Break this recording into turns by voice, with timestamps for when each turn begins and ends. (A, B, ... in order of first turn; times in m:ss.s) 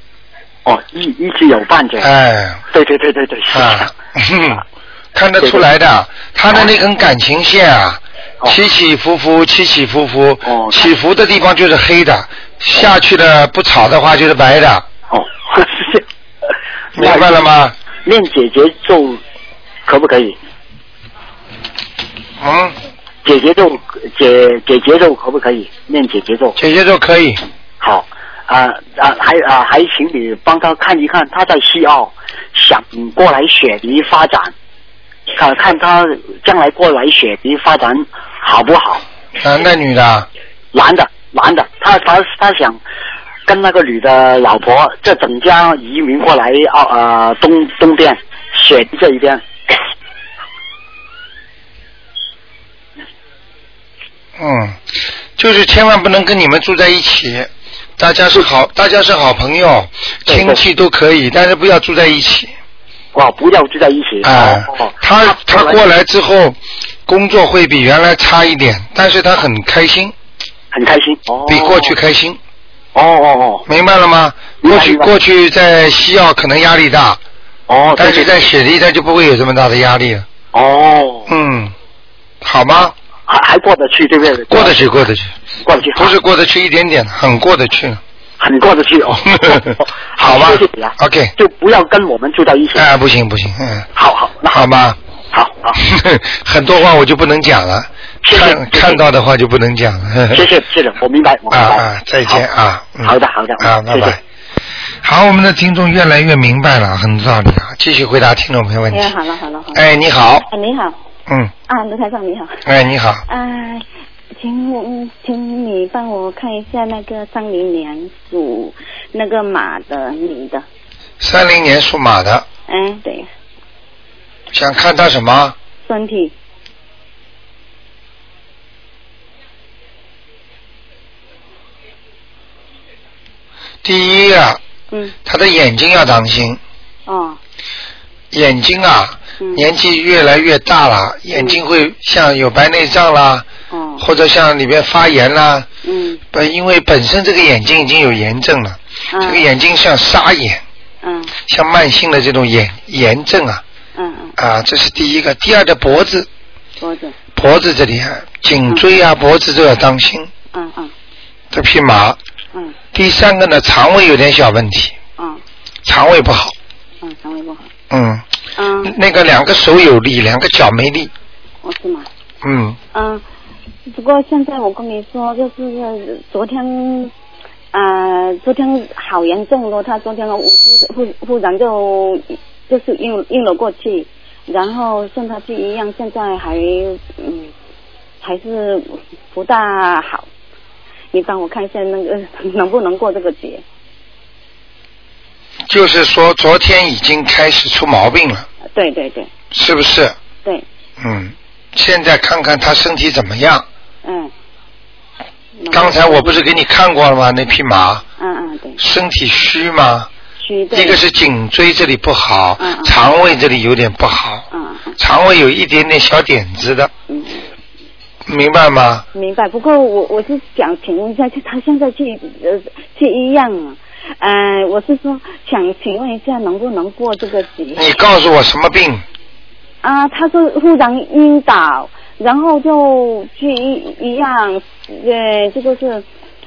0:00.6-0:02.1 A
0:02.0-0:02.6 B
0:02.7-0:03.9 A
0:03.5-0:04.6 B
0:05.1-0:14.9 B
0:10.4-0:10.9 A
0:15.1-0:16.0 A
0:16.9-0:17.4 A
0:16.9-0:17.8 B
0:18.0-0:19.2 A
0:19.8-0:20.4 A
0:22.4-0:22.8 B
0:23.2-0:26.6 A
0:26.6-0:27.4 B
0:27.8-0:34.5 A
0:35.3-0:39.0 A
0:39.4-0:40.3 B
0:40.7-0:42.8 A
0:43.4-0:49.4 A
0:54.4-0:54.8 B
0:55.4-1:02.5 B
1:00.3-1:00.6 A
1:03.1-1:05.8 A
1:04.2-1:10.1 B
1:10.7-1:12.0 A
1:11.5-1:12.4 B
1:12.9-1:13.6 A
1:13.7-1:17.2 B
1:14.6-1:15.1 A
1:17.7-1:18.4 A
1:18.0-1:20.3 B
1:20.5-1:21.3 A
1:21.3-1:21.7 B
1:22.4-1:22.9 B
1:23.3-1:25.0 A
1:24.5-1:25.3 B
1:25.6-1:26.1 A
1:25.9-1:28.0 B
1:28.4-1:32.8 A
1:29.2-1:31.3 B
1:32.7-1:33.9 B
1:33.9-1:34.7 A
1:34.5-1:35.0 B
1:35.3-1:35.8 A
1:35.8-1:40.4 B
1:38.2-1:39.0 A
1:40.3-1:42.4 A
1:41.5-1:44.2 B
1:43.0-1:44.2 A
1:45.0-1:49.1 B
1:48.9-1:49.8 C
1:49.7-1:50.5 B
1:50.5-1:51.0 C
1:51.7-1:52.6 C
1:52.6-1:53.2 B
1:53.3-1:53.8 C
1:54.4-2:00.6 C
2:01.2-2:02.5 B
2:02.7-2:03.3 C
2:04.5-2:05.6 B
2:05.8-2:06.3 C
2:13.8-2:14.6 B
2:15.2-2:16.6 B
2:17.1-2:17.4 C
2:18.3-2:23.4 B
2:19.4-2:19.6 C
2:21.3-2:21.6 C
2:23.7-2:24.0 C
2:24.0-2:25.7 B
2:25.8-2:26.2 C
2:26.3-2:30.6 B
2:29.1-2:29.4 C
2:31.0-2:31.3 C
2:31.4-2:33.6 B
2:34.0-2:34.3 C
2:34.4-2:36.3 B
2:36.8-2:37.2 C
2:37.3-2:40.3 B
2:40.5-2:40.9 C
2:41.5-2:42.2 B
2:42.9-2:44.9 B
2:45.2-2:45.4 C
2:45.8-2:46.5 B
2:47.0-2:47.7 C
2:47.9-2:48.2 B
2:48.6-2:48.9 C
2:48.8-2:51.1 B
2:51.6-2:52.1 C
2:52.4-2:52.8 B
2:52.9-2:53.2 C
2:53.9-2:57.1 C
2:57.7-3:07.5 C
3:08.2-3:10.3 C
3:11.1-3:13.6 C
3:15.7-3:18.5 B
3:18.7-3:19.3 C
3:19.5-3:20.2 B
3:21.0-3:23.6 B
3:24.0-3:24.3 C
3:25.6-3:26.4 C
3:25.7-3:28.0 B
3:28.2-3:28.8 C
3:28.8-3:30.1 B
3:30.4-3:31.0 C
3:30.7-3:34.5 B
3:32.6-3:32.9 C
3:34.5-3:35.0 C
3:35.0-3:36.9 B
3:37.1-3:37.4 C
3:38.2-3:39.0 B
3:39.1-3:48.0 C
3:47.8-3:49.0 B
3:49.8-3:56.0 C